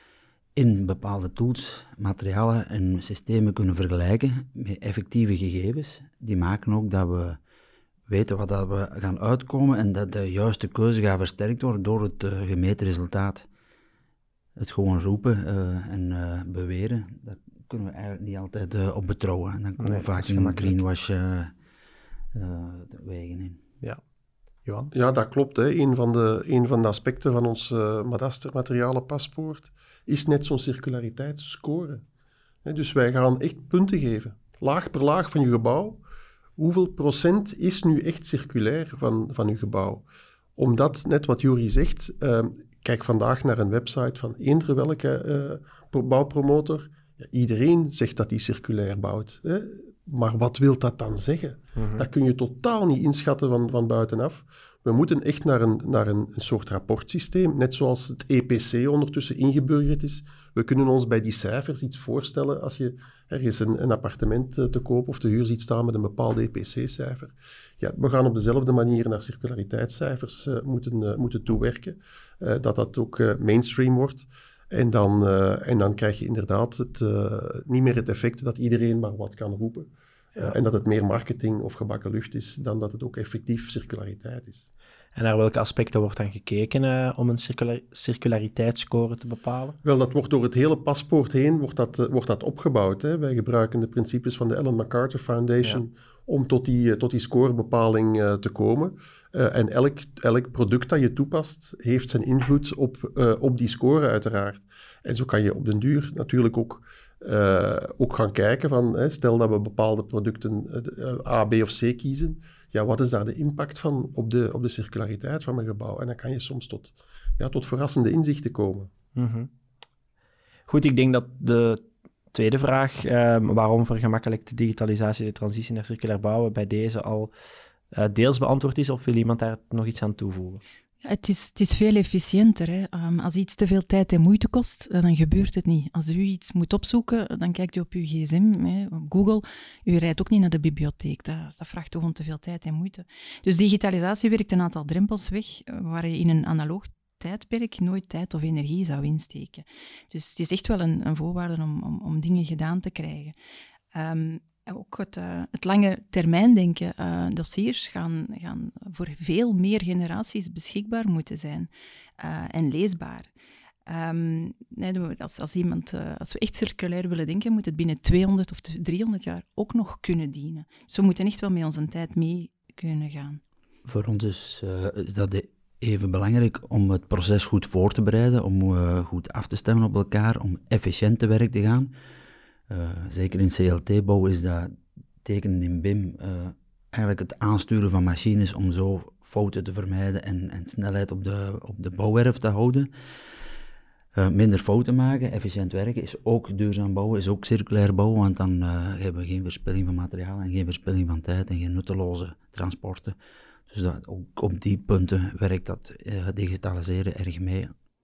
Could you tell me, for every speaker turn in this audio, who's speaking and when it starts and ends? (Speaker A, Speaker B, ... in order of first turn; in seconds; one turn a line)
Speaker A: 0.6-7.4
Speaker A: 8.1-13.4
Speaker A: 14.6-21.5
Speaker B: 19.8-20.8
Speaker A: 22.3-23.6
Speaker B: 24.6-24.9
Speaker C: 24.9-32.0
Speaker C: 32.6-36.0
Speaker C: 36.6-40.0
Speaker C: 40.6-84.6
Speaker B: 51.8-52.1
Speaker B: 85.1-89.8
Speaker C: 89.8-118.9
Speaker B: 119.1-119.5
Speaker B: 120.7-127.3
Speaker B: 127.9-130.6
Speaker D: 131.0-153.3
Speaker D: 153.9-163.3
Speaker D: 163.9-173.4
Speaker A: 173.8-181.9
Speaker A: 182.7-192.9
Speaker A: 194.2-203.2
Speaker A: 203.7-207.7